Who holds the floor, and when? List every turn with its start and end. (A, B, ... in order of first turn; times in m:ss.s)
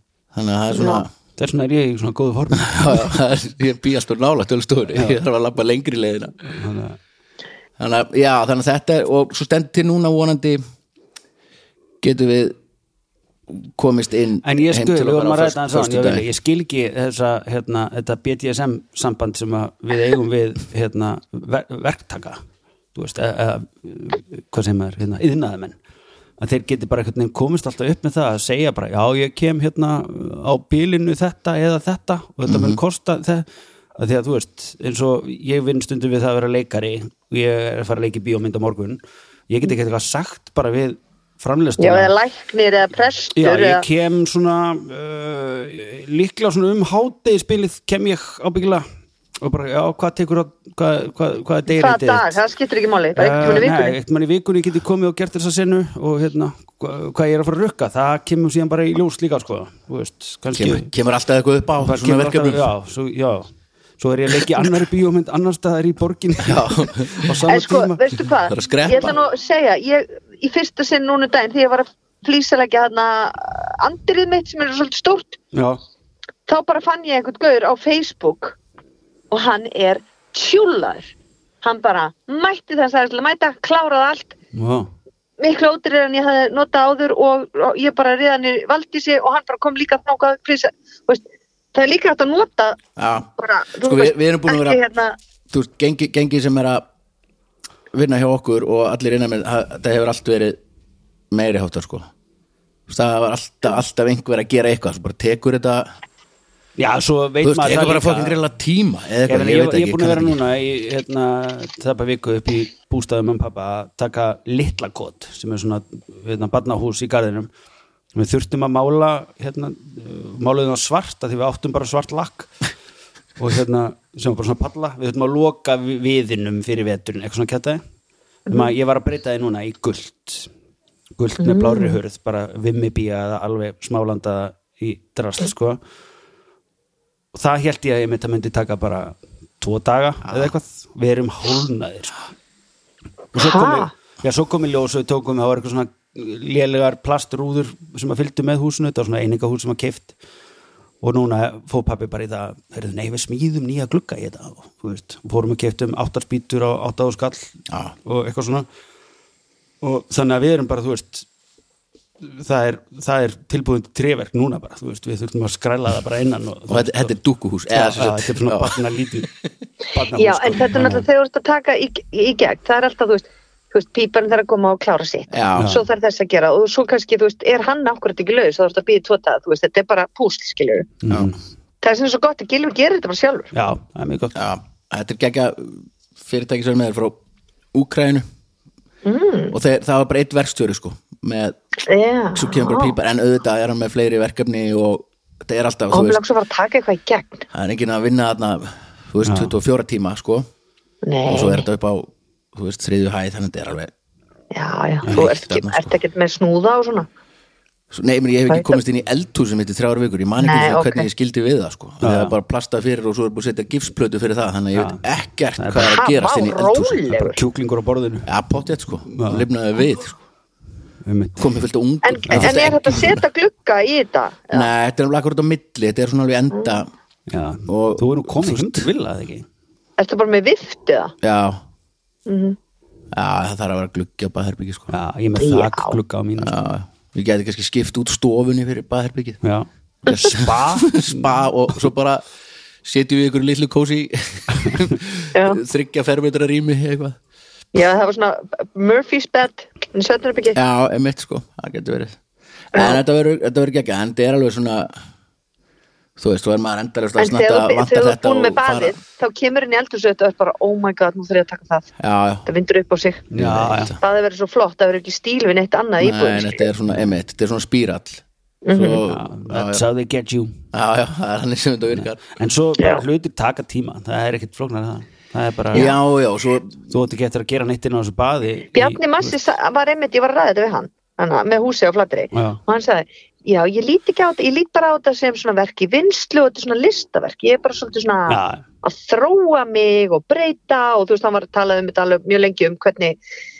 0:00.3-0:01.1 A
0:00.7-0:01.0 B
0:01.4-0:03.1 C
0:02.6-0:06.3 A
0:04.9-0:05.2 C
0:06.5-0:07.0 C
0:07.8-0:10.6 A
0:12.0-0:12.5 A
0:13.5-0:16.2 A
0:14.4-0:22.4 C
0:22.9-0:25.8 C
0:26.4-0:33.4 C
0:32.5-0:32.8 A
0:34.0-0:42.1 C
0:41.8-0:43.8 B
0:43.4-0:48.8 C
0:49.4-0:52.4 C
0:51.7-0:54.0 B
0:53.2-1:00.9 C
1:00.5-1:02.7 A
1:01.8-1:08.0 C
1:06.4-1:07.3 A
1:07.5-1:15.4 B
1:08.5-1:09.2 A
1:15.5-1:15.8 C
1:16.5-1:18.6 B
1:19.3-1:24.3 B
1:24.5-1:24.9 C
1:25.4-1:31.2 B
1:31.7-1:32.8 B
1:33.0-1:33.3 A
1:33.4-1:35.2 B
1:33.8-1:34.8 A
1:35.5-1:36.8 A
1:37.9-1:40.6 A
1:41.3-1:42.1 A
1:42.9-1:45.9 A
1:46.8-1:48.4 C
1:47.4-1:50.4 A
1:49.3-1:57.5 C
1:58.1-2:02.5 C
2:03.4-2:07.8 C
2:08.5-2:10.5 C
2:11.2-2:15.8 C
2:11.4-2:12.0 B
2:17.3-2:22.2 C
2:23.3-2:30.1 C
2:23.4-2:23.9 B
2:31.0-2:38.6 C
2:37.7-2:37.9 A
2:39.8-2:41.3 C
2:42.2-2:47.1 C
2:46.7-2:48.8 A
2:47.7-2:49.3 C
2:49.9-2:51.1 C
2:50.1-3:00.9 B
2:55.3-2:55.8 A
2:55.6-2:55.8 C
3:01.0-3:01.4 C
3:01.8-3:03.5 B
3:03.5-3:04.4 C
3:04.3-3:07.2 A
3:07.7-3:08.2 A
3:09.0-3:09.5 B
3:09.5-3:11.6 A
3:11.8-3:12.9 B
3:12.3-3:16.2 A
3:15.9-3:17.4 B
3:17.5-3:20.5 A
3:19.2-3:19.5 C
3:21.0-3:21.6 B
3:21.3-3:23.9 A
3:24.5-3:27.1 B
3:25.1-3:25.9 A
3:27.9-3:37.2 A
3:30.4-3:31.1 B
3:32.0-3:32.3 C
3:34.7-3:35.0 C
3:35.6-3:35.9 C
3:35.8-3:37.4 B
3:37.2-3:38.3 C
3:38.2-3:40.2 A
3:39.1-3:39.5 C
3:41.0-3:41.5 C
3:41.4-3:43.2 A
3:42.0-3:44.7 B
3:42.3-3:42.7 C
3:44.5-3:46.9 A
3:47.3-3:49.4 C
3:47.7-3:48.9 A
3:50.0-3:51.1 B
3:51.2-3:51.6 A
3:52.2-3:52.6 B
3:53.1-3:54.9 A
3:54.9-3:56.5 C
3:55.4-3:56.0 B
3:56.4-3:59.4 A
3:59.4-4:01.4 C
4:00.1-4:02.2 A
4:02.8-4:07.2 A
4:05.3-4:05.6 B
4:07.7-4:10.6 B
4:10.5-4:12.2 A
4:12.7-4:14.9 A
4:12.7-4:13.0 B
4:16.2-4:19.0 A
4:17.2-4:21.9 B
4:22.0-4:22.4 A
4:22.4-4:23.2 B
4:23.3-4:23.9 C
4:23.3-4:24.0 A
4:24.0-4:26.7 B
4:26.0-4:29.8 A
4:28.6-4:29.0 B
4:29.0-4:30.6 C
4:30.7-4:32.3 A
4:31.9-4:35.9 C
4:35.7-4:36.8 A
4:36.9-4:39.4 C
4:38.7-4:53.2 B
4:42.3-4:42.6 C
4:48.3-4:48.6 C